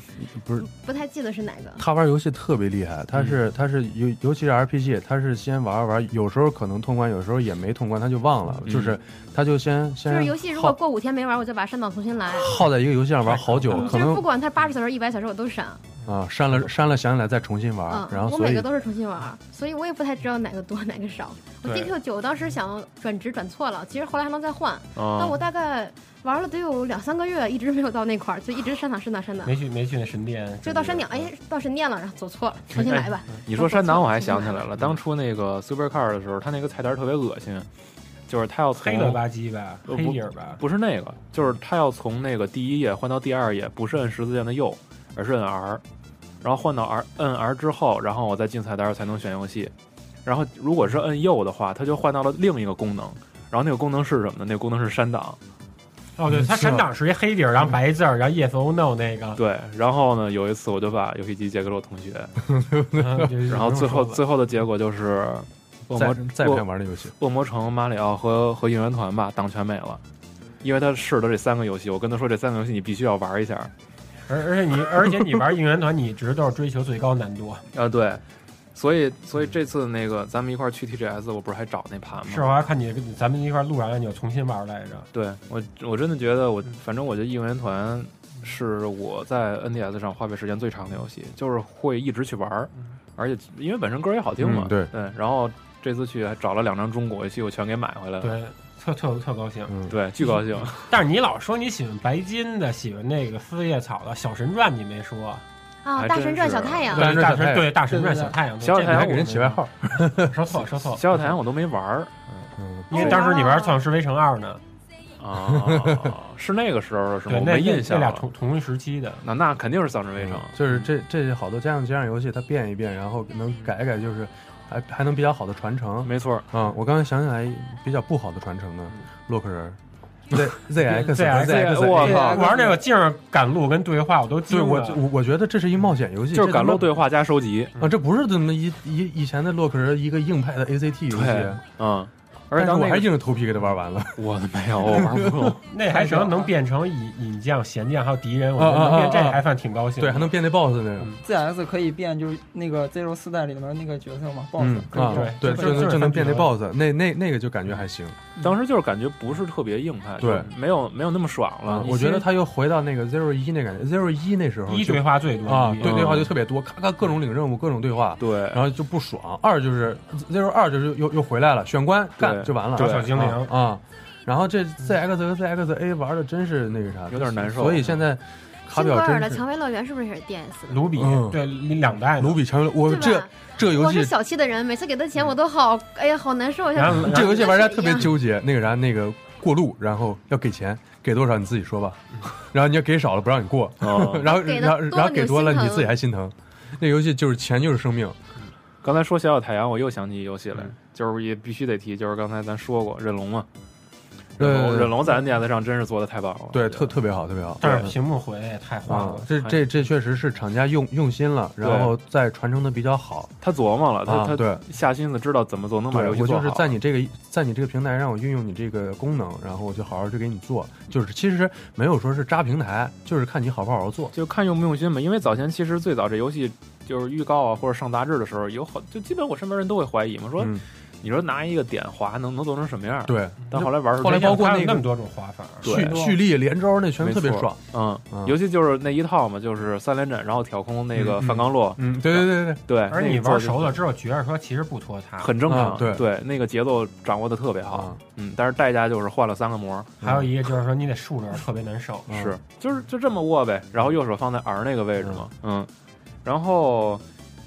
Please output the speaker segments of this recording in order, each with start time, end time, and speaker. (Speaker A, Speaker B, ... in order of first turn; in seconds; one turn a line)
Speaker A: 0.2-0.7
Speaker B: 0.6-1.8
Speaker A: 1.8-10.8
Speaker C: 8.7-9.0
Speaker B: 10.1-12.6
Speaker A: 12.3-14.2
Speaker D: 13.2-14.0
Speaker B: 13.7-15.8
Speaker A: 16.1-18.7
Speaker B: 17.9-29.6
Speaker D: 21.6-21.9
Speaker C: 25.0-25.4
Speaker D: 29.4-31.3
Speaker B: 30.6-34.7
Speaker C: 32.7-37.7
Speaker C: 38.3-39.2
Speaker D: 38.8-40.6
Speaker C: 39.9-45.8
Speaker C: 46.4-49.7
Speaker C: 50.2-55.4
Speaker D: 56.2-59.4
Speaker A: 56.3-56.8
Speaker C: 59.4-62.3
Speaker A: 62.5-63.3
Speaker D: 63.0-64.2
Speaker C: 63.5-66.7
Speaker A: 65.9-67.1
Speaker C: 67.2-70.0
Speaker C: 70.6-73.7
Speaker D: 74.3-77.6
Speaker C: 77.7-78.2
Speaker C: 78.7-82.5
Speaker D: 82.3-85.1
Speaker C: 85.1-98.4
Speaker A: 94.4-94.9
Speaker D: 98.2-105.4
Speaker A: 99.7-100.0
Speaker C: 99.9-101.0
Speaker B: 105.8-107.2
Speaker C: 105.9-107.0
Speaker D: 106.9-109.6
Speaker A: 107.0-107.8
Speaker E: 107.9-108.3
Speaker C: 108.6-109.3
Speaker A: 108.8-110.3
Speaker D: 110.2-111.4
Speaker C: 110.7-112.3
Speaker A: 112.6-113.0
Speaker D: 112.9-114.6
Speaker B: 112.9-113.8
Speaker C: 115.2-118.3
Speaker A: 115.5-116.1
Speaker D: 117.3-119.2
Speaker C: 119.2-120.9
Speaker A: 120.2-129.8
Speaker C: 126.0-126.5
Speaker A: 130.3-132.4
Speaker D: 130.8-135.1
Speaker C: 131.3-132.6
Speaker A: 134.5-137.0
Speaker C: 136.3-137.8
Speaker A: 137.8-141.6
Speaker C: 141.1-143.2
Speaker A: 142.5-144.2
Speaker C: 144.2-145.6
Speaker A: 144.8-145.5
Speaker D: 145.7-150.4
Speaker E: 146.1-146.4
Speaker A: 148.6-149.4
Speaker A: 150.0-151.1
Speaker E: 151.2-156.0
Speaker A: 154.6-158.2
Speaker D: 155.0-156.5
Speaker C: 158.4-162.3
Speaker A: 160.2-160.5
Speaker A: 161.7-179.4
Speaker D: 164.7-166.2
Speaker C: 165.8-166.3
Speaker C: 168.2-168.6
Speaker C: 172.2-173.1
Speaker D: 172.7-173.5
Speaker C: 177.1-178.0
Speaker B: 178.7-180.9
Speaker D: 180.7-182.4
Speaker A: 181.0-181.4
Speaker A: 182.2-184.1
Speaker B: 182.8-188.1
Speaker D: 186.8-187.4
Speaker A: 186.9-198.2
Speaker C: 193.8-194.3
Speaker B: 194.2-195.9
Speaker C: 198.8-203.5
Speaker C: 204.4-206.9
Speaker A: 204.4-205.2
Speaker A: 206.5-207.9
Speaker D: 207.6-209.3
Speaker C: 207.6-207.9
Speaker A: 208.9-213.3
Speaker C: 209.4-209.6
Speaker C: 211.6-211.9
Speaker C: 213.4-216.7
Speaker A: 214.1-214.6
Speaker A: 215.9-224.1
Speaker C: 224.1-234.5
Speaker A: 230.4-230.6
Speaker A: 233.1-234.9
Speaker D: 234.0-236.1
Speaker C: 235.6-236.1
Speaker A: 235.6-238.3
Speaker C: 237.0-243.8
Speaker A: 240.9-242.6
Speaker D: 242.9-245.3
Speaker C: 245.2-250.0
Speaker A: 245.5-246.1
Speaker A: 247.7-248.0
Speaker A: 250.0-250.3
Speaker D: 250.0-252.1
Speaker A: 252.1-252.4
Speaker C: 252.1-255.7
Speaker A: 255.0-255.3
Speaker C: 256.2-257.0